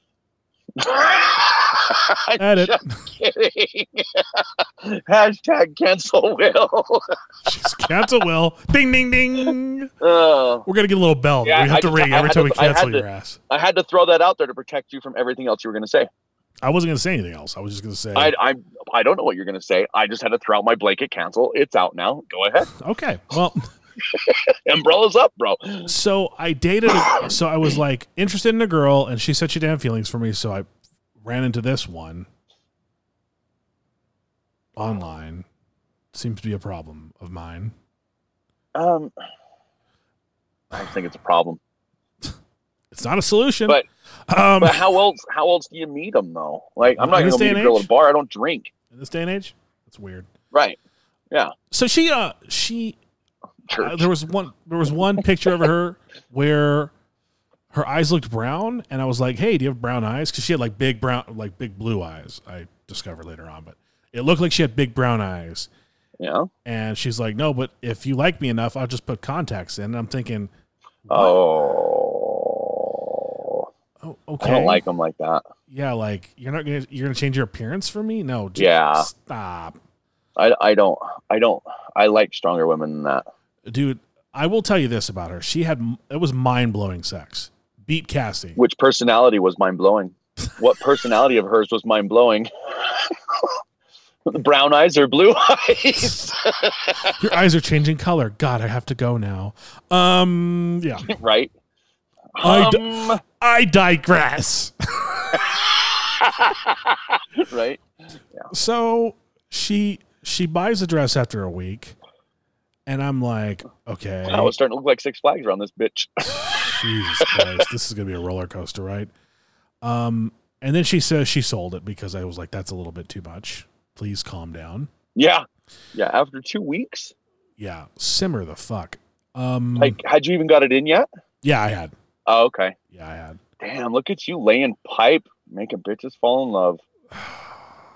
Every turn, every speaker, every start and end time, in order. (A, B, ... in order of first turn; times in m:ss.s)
0:00.8-0:07.0 A
0:02.4-0:03.0 B
0:07.4-0:09.9 B
0:10.0-0:10.6 A
0:10.6-0:13.4 B
0:11.4-0:16.1 A
0:16.6-0:18.3 B
0:18.1-0:22.7 A
0:22.8-0:23.6 B
0:24.1-0:25.9 A
0:25.9-0:30.7 B
0:27.0-0:27.3 A
0:31.2-0:32.3 B
0:34.8-0:35.4 B
0:36.1-0:37.7 B
0:38.7-0:39.1 A
0:40.7-0:41.6 A
0:42.9-0:44.9 B
0:44.6-0:48.7 A
0:46.9-0:47.9 B
0:48.9-0:50.3 B
0:50.5-0:50.8 A
0:51.7-0:53.0 B
0:53.7-0:54.1 A
0:53.7-0:56.9 B
0:57.7-1:05.7 B
1:06.2-1:06.5 A
1:06.6-1:10.5 B
1:11.1-1:11.5 B
1:11.1-1:13.7 A
1:14.0-1:14.8 B
1:14.4-1:15.4 A
1:15.7-1:19.8 B
1:18.6-1:19.1 A
1:20.4-1:23.2 A
1:23.6-1:28.6 B
1:28.6-1:33.5 A
1:34.3-1:37.1 A
1:36.0-1:36.3 B
1:37.2-1:41.1 B
1:41.1-1:41.5 A
1:42.4-1:43.2 A
1:42.4-1:45.4 B
1:46.2-1:47.8 A
1:48.5-1:51.9 B
1:52.8-1:54.5 B
1:54.3-1:56.7 A
1:56.3-1:59.1 B
1:59.8-2:04.9 B
2:05.1-2:07.1 A
2:07.6-2:10.0 B
2:09.8-2:11.1 A
2:11.4-2:11.9 B
2:12.2-2:12.8 A
2:12.9-2:13.4 B
2:13.6-2:16.8 A
2:17.1-2:17.5 B